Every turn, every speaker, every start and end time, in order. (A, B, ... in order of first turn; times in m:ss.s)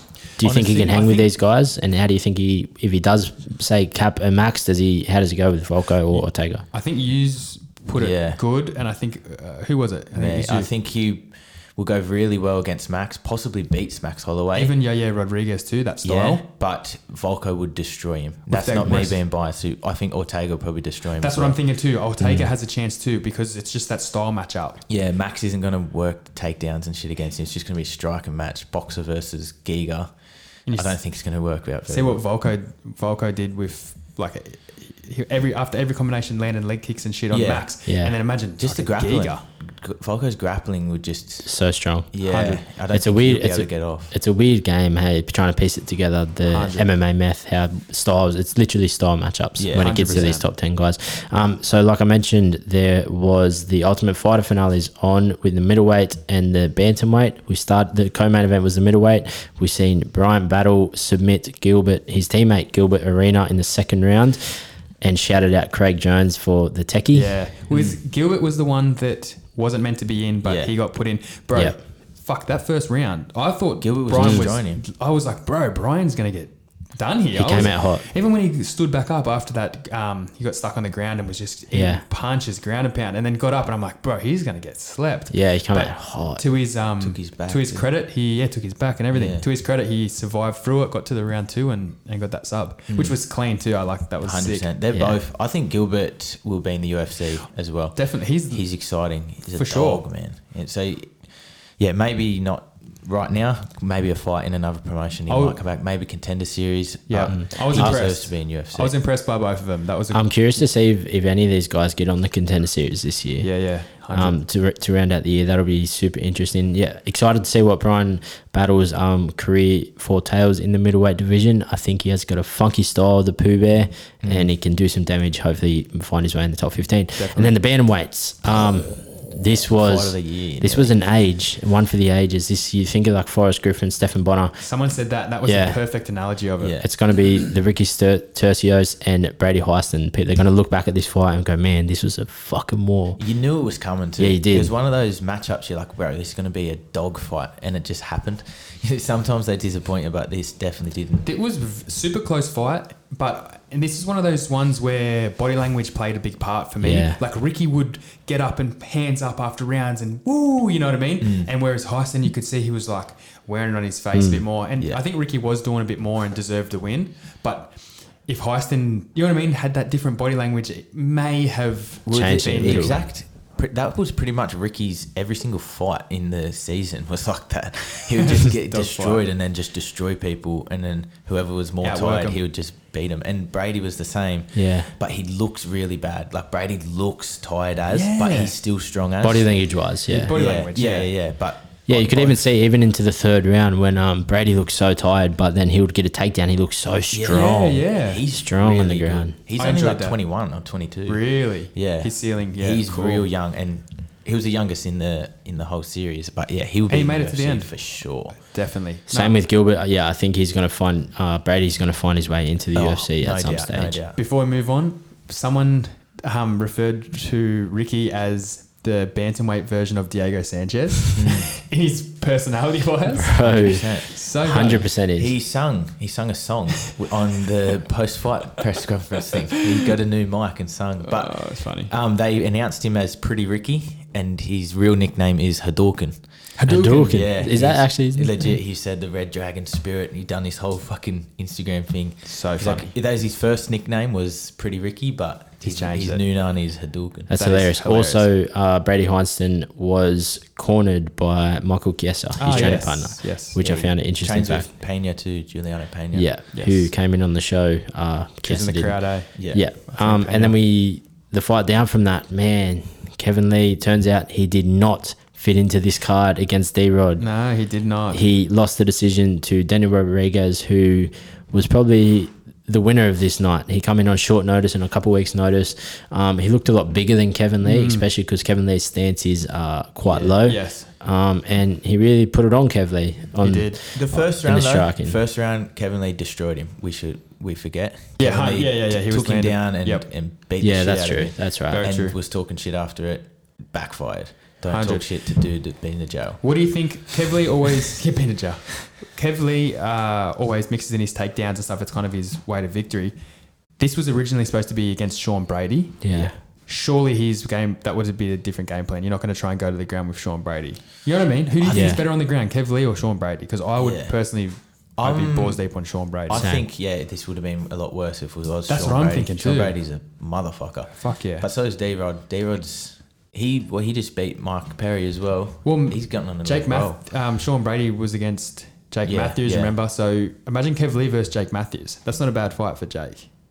0:00.4-0:06.6 A
0:00.4-0:01.3 B
0:06.7-0:10.7 C
0:07.9-0:08.4 B
0:10.1-0:14.7 B
0:14.5-0:16.4 C
0:16.0-0:21.6 B
0:18.5-0:19.2 C
0:21.2-0:24.8 C
0:22.2-0:22.5 A
0:24.9-0:30.1 B
0:30.7-0:31.0 C
0:30.7-0:32.2 B
0:31.9-0:39.4 C
0:37.3-0:37.7 B
0:37.9-0:38.2 A
0:38.6-0:41.5 B
0:41.4-1:07.4 A
0:42.1-0:44.1 B
0:42.3-0:42.6 C
0:46.5-0:46.9 C
0:49.6-0:50.3 B
0:49.8-0:50.5 C
1:07.1-1:34.7 C
1:10.4-1:10.7 B
1:13.8-1:14.8 B
1:14.2-1:14.5 A
1:17.3-1:18.1 A
1:21.7-1:22.0 A
1:25.3-1:26.4 A
1:27.0-1:27.9 B
1:29.1-1:29.4 B
1:32.9-1:33.2 B
1:34.2-1:41.3 B
1:34.9-1:35.2 A
1:38.0-1:38.7 C
1:39.5-1:40.0 C
1:41.8-1:49.0 B
1:45.3-1:45.6 C
1:47.1-1:50.3 C
1:47.3-1:48.0 A
1:50.1-1:53.5 A
1:53.4-1:54.4 C
1:54.1-2:14.6 A
2:04.2-2:04.5 B
2:07.2-2:07.6 C
2:09.7-2:10.9 B
2:14.6-2:16.8 C
2:15.4-2:15.8 A
2:16.6-2:16.9 B
2:16.8-2:23.2 A
2:23.2-2:31.3 B
2:24.2-2:24.7 A
2:31.2-2:53.0 C
2:36.8-2:37.2 A
2:41.2-2:41.5 B
2:44.1-2:44.4 A
2:52.1-3:09.5 B
2:52.1-2:53.0 A
2:58.2-2:59.2 C
3:01.8-3:02.4 C
3:04.5-3:04.9 A
3:07.9-3:08.6 C
3:09.2-3:10.3 A
3:10.1-3:11.1 C
3:10.3-3:12.4 B
3:11.9-3:19.4 A
3:17.1-3:21.2 B
3:17.3-3:18.2 C
3:19.6-3:20.2 C
3:21.1-3:23.3 C
3:21.7-3:28.4 B
3:26.9-3:29.4 C
3:29.1-3:34.0 A
3:32.7-3:34.2 B
3:34.2-3:44.9 C
3:41.2-3:41.5 B
3:43.2-3:45.3 A
3:43.4-3:44.1 B
3:45.2-3:56.2 B
3:51.0-3:51.9 C
3:56.6-3:57.3 C
3:56.6-3:58.4 A
3:57.0-4:07.3 B
4:02.3-4:02.9 C
4:05.6-4:06.2 C
4:07.3-4:14.7 A
4:07.3-4:08.3 C
4:12.4-4:13.6 C
4:12.5-4:13.0 B
4:13.6-4:16.3 B
4:16.1-4:27.3 A
4:16.5-4:16.9 C
4:18.4-4:20.6 C
4:19.4-4:19.6 B
4:27.2-4:28.3 C
4:28.1-4:45.2 A
4:37.6-4:38.1 C
4:40.1-4:40.4 B
4:40.4-4:40.9 C
4:43.4-4:43.8 C
4:43.9-4:56.4 B
4:48.2-4:50.1 C
4:50.6-4:51.9 A
4:51.7-4:52.2 C
4:54.7-4:55.1 C
4:56.4-5:03.2 C
5:03.8-5:16.5 C
5:06.0-5:06.3 A
5:11.6-5:12.0 B
5:11.7-5:12.0 A
5:13.8-5:14.2 B
5:15.0-5:27.0 B
5:16.3-5:16.7 A
5:18.7-5:19.8 C
5:21.0-5:21.5 C
5:25.6-5:33.3 C
5:29.0-5:29.8 B